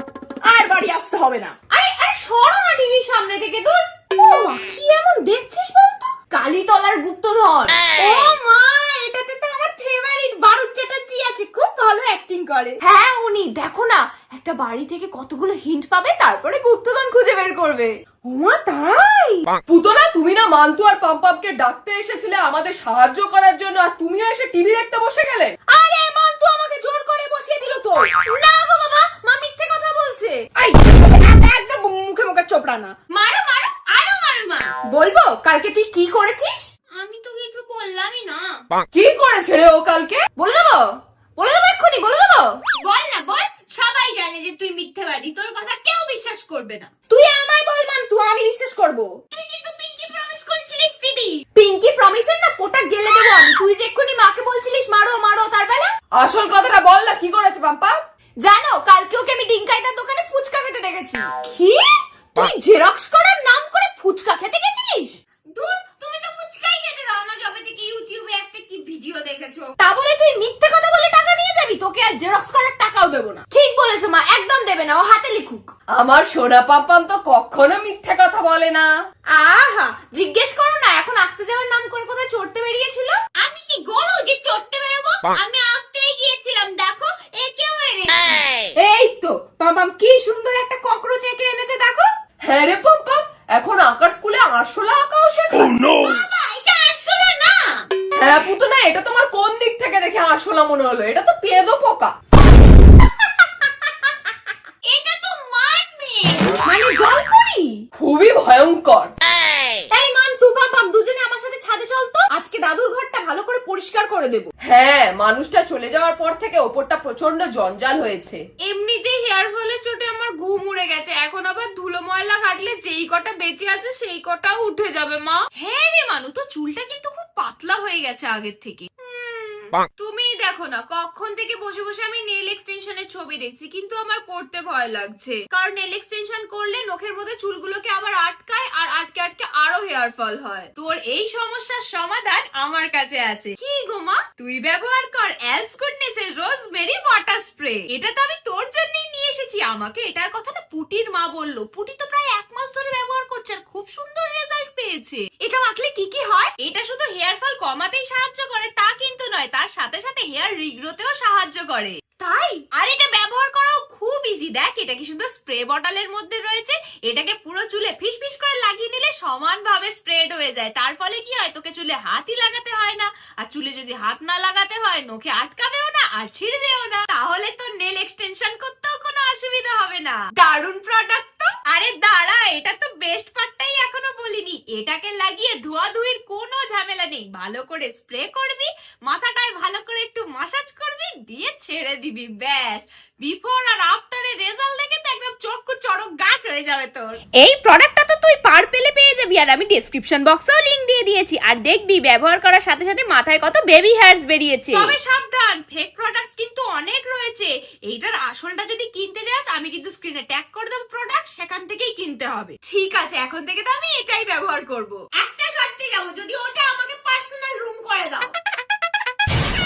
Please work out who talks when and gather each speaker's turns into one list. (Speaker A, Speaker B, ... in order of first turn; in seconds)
Speaker A: 0.4-1.7, 4.1-6.3, 7.7-12.8, 18.3-19.4, 25.7-29.0, 30.3-32.9, 34.3-36.6, 40.4-42.7, 47.0-50.0, 50.5-55.9, 58.4-65.1, 69.8-75.7, 79.3-83.2, 88.8-92.1, 96.0-97.3, 105.5-107.8, 109.9-114.5, 161.7-162.7, 194.7-204.9, 211.9-212.5, 215.2-218.3
Speaker B: 1.7-3.8, 6.3-7.7, 12.8-17.9, 28.3-30.4, 33.1-34.7, 36.9-38.5, 42.8-46.9, 49.3-51.3, 65.5-69.7, 83.4-88.5, 96.4-97.7, 104.9-106.2, 118.6-161.9, 162.7-194.7, 195.5-195.9, 204.7-215.1, 216.1-218.2
Speaker C: 19.7-25.5, 38.9-40.2, 56.1-58.0, 75.9-78.9, 92.4-95.9, 98.1-102.1, 107.9-109.1, 114.6-118.4